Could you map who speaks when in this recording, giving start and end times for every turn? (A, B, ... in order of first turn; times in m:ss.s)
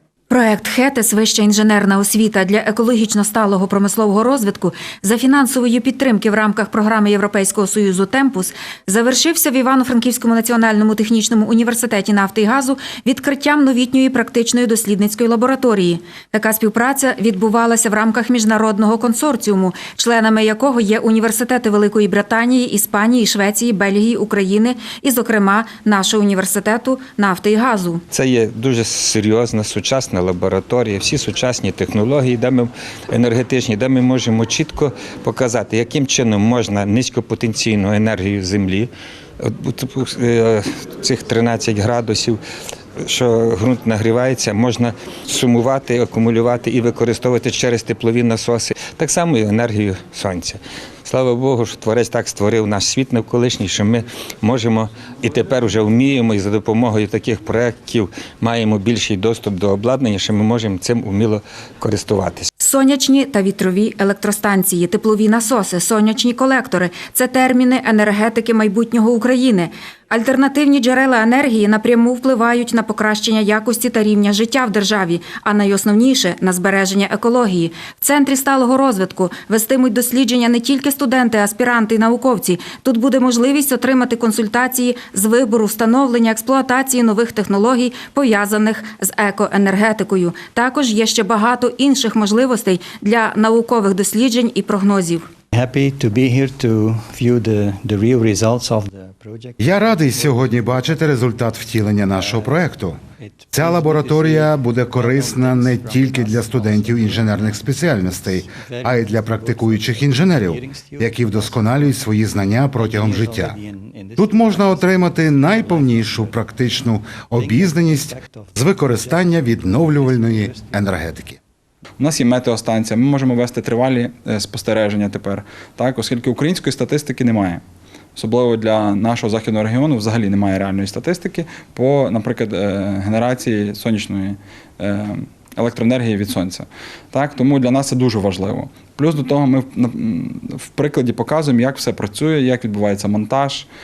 0:00.3-0:28.0 A
0:28.1-0:42.4 B
0:43.0-1:02.5 B
1:02.6-1:35.2 A
1:35.5-1:41.4 C
1:39.6-1:43.0 D
1:42.0-2:01.2 C
1:43.5-1:53.6 D
1:54.2-2:01.4 D
2:02.0-2:07.6 E
2:08.2-2:23.7 E